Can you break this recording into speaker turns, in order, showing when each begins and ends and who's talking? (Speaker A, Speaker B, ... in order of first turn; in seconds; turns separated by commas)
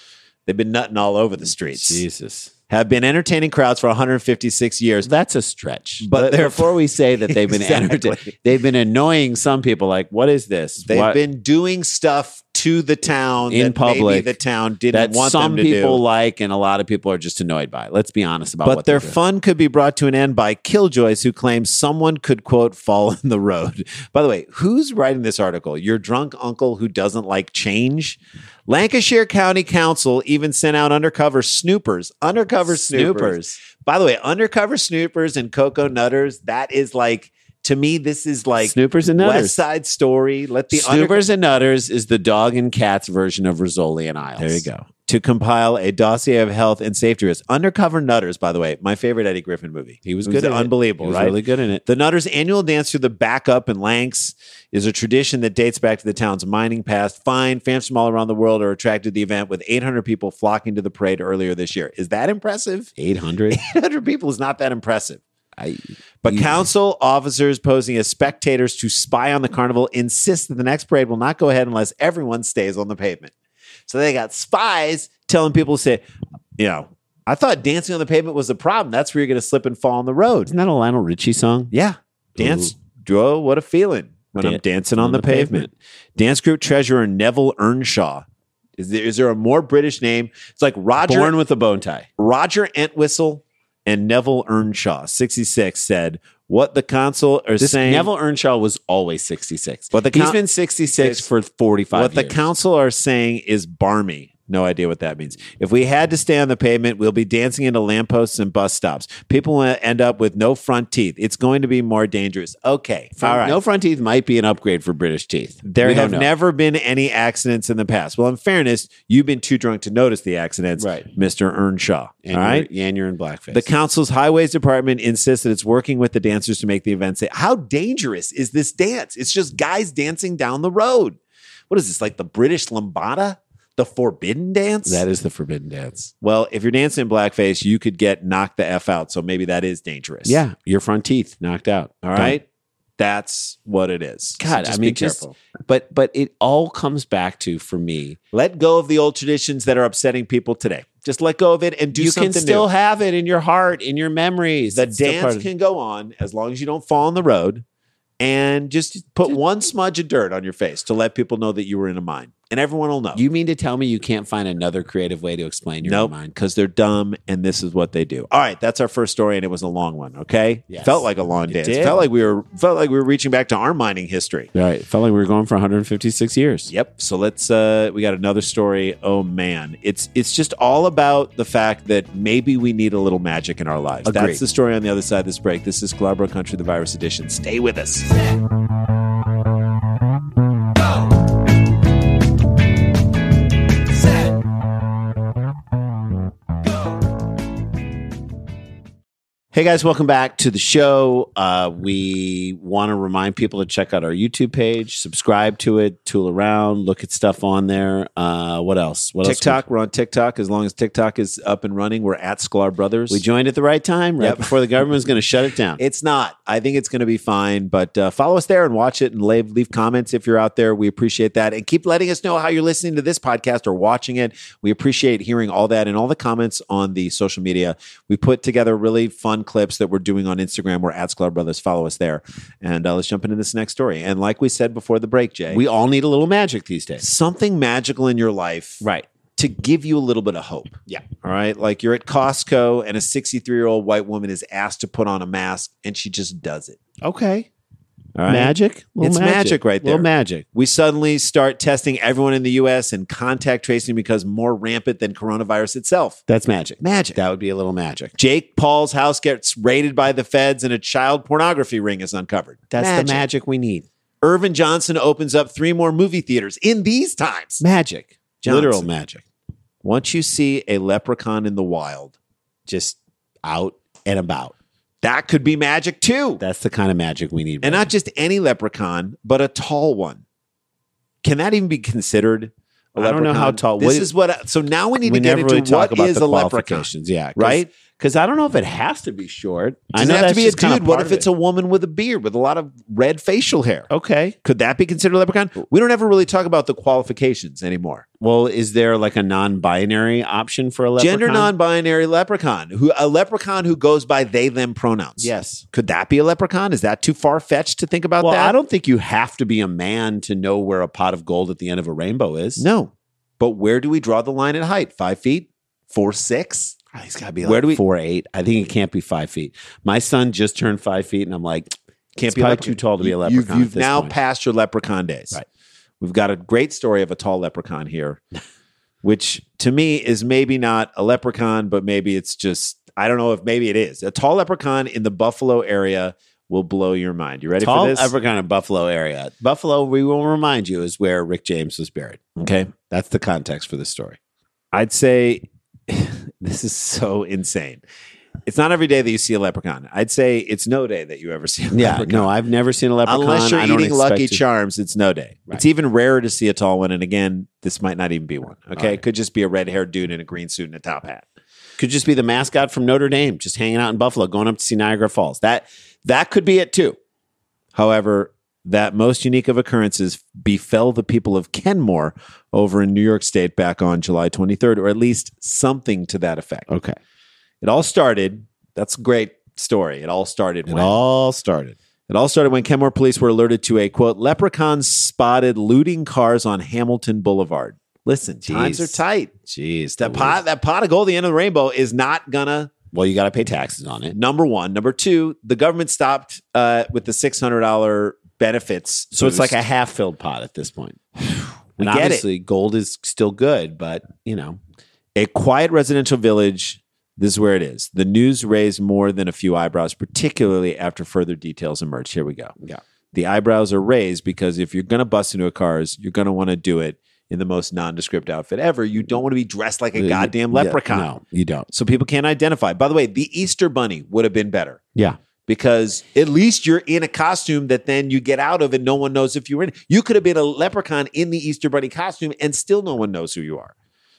Speaker A: 0.5-2.0, Speaker B: 1.7-2.5, Speaker A: 2.7-5.1, Speaker B: 5.0-11.2, Speaker A: 6.0-8.3, Speaker A: 10.8-16.0, Speaker B: 13.5-14.4, Speaker B: 14.9-19.2, Speaker A: 18.6-41.3, Speaker B: 32.7-33.6, Speaker B: 38.6-39.6, Speaker B: 40.7-44.8, Speaker A: 44.4-62.9, Speaker B: 50.0-51.8, Speaker B: 63.0-63.6, Speaker A: 63.5-65.2, Speaker B: 65.6-66.7, Speaker A: 66.2-73.3, Speaker A: 73.9-76.0, Speaker A: 76.6-80.5, Speaker B: 80.5-81.7, Speaker A: 81.7-88.2, Speaker B: 82.4-82.7, Speaker B: 84.4-85.7, Speaker A: 88.8-91.4, Speaker B: 91.0-92.1, Speaker A: 92.2-98.1, Speaker B: 97.6-102.4, Speaker A: 99.9-100.4, Speaker A: 101.0-101.3, Speaker A: 101.9-113.6, Speaker B: 113.2-116.3, Speaker A: 115.7-122.7, Speaker B: 120.8-121.1, Speaker B: 122.3-123.7, Speaker A: 123.5-131.2, Speaker A: 131.7-135.0, Speaker B: 134.8-136.1, Speaker A: 136.2-140.4, Speaker B: 140.2-142.4, Speaker A: 142.0-142.4, Speaker A: 143.0-145.2, Speaker B: 144.4-148.2, Speaker A: 148.3-152.7, Speaker B: 151.9-155.5, Speaker A: 154.7-157.6, Speaker A: 158.2-163.2, Speaker B: 163.2-166.3, Speaker A: 165.8-174.5, Speaker B: 170.7-172.1, Speaker B: 174.5-176.7, Speaker A: 176.7-188.4, Speaker B: 184.1-184.4, Speaker B: 199.5-209.6, Speaker A: 209.2-213.2, Speaker B: 213.1-215.8, Speaker A: 214.2-214.5, Speaker A: 215.8-235.6, Speaker B: 235.5-237.0, Speaker A: 237.0-238.8, Speaker B: 238.8-239.1, Speaker A: 239.4-246.9, Speaker B: 247.0-247.5, Speaker A: 248.2-256.2, Speaker B: 248.3-250.5, Speaker B: 256.3-258.1, Speaker A: 256.8-257.2, Speaker A: 258.2-263.2, Speaker B: 262.7-263.9, Speaker A: 264.2-267.6, Speaker B: 267.6-269.2, Speaker A: 268.4-268.9, Speaker A: 269.8-272.1, Speaker B: 272.7-274.5, Speaker A: 275.0-276.4, Speaker B: 276.4-277.9, Speaker A: 277.6-280.2, Speaker A: 281.2-287.7, Speaker B: 283.0-284.1, Speaker B: 285.0-291.3, Speaker A: 289.9-293.9, Speaker B: 293.9-294.4, Speaker A: 294.4-298.1, Speaker B: 298.2-301.5, Speaker A: 301.0-308.6, Speaker B: 305.2-305.6, Speaker B: 308.2-312.6, Speaker A: 312.6-317.8, Speaker B: 317.4-321.7, Speaker A: 322.2-325.4, Speaker B: 322.3-324.1, Speaker A: 326.0-328.2, Speaker A: 329.0-338.1, Speaker B: 337.6-342.2, Speaker A: 342.4-342.7, Speaker B: 342.9-344.2, Speaker A: 344.7-347.8, Speaker A: 348.5-352.3, Speaker B: 351.7-354.4, Speaker A: 353.1-361.3, Speaker B: 358.8-359.0, Speaker B: 361.8-367.0, Speaker A: 367.8-376.7, Speaker B: 376.7-377.0, Speaker A: 377.6-381.0, Speaker B: 380.7-381.8, Speaker A: 382.1-389.4, Speaker B: 388.4-390.4, Speaker A: 390.0-392.7, Speaker B: 392.9-394.2, Speaker A: 394.1-399.6, Speaker B: 399.1-404.6, Speaker A: 401.8-402.2, Speaker A: 405.2-412.6, Speaker A: 413.1-421.1, Speaker B: 420.0-421.7, Speaker A: 421.7-424.8, Speaker A: 425.5-433.7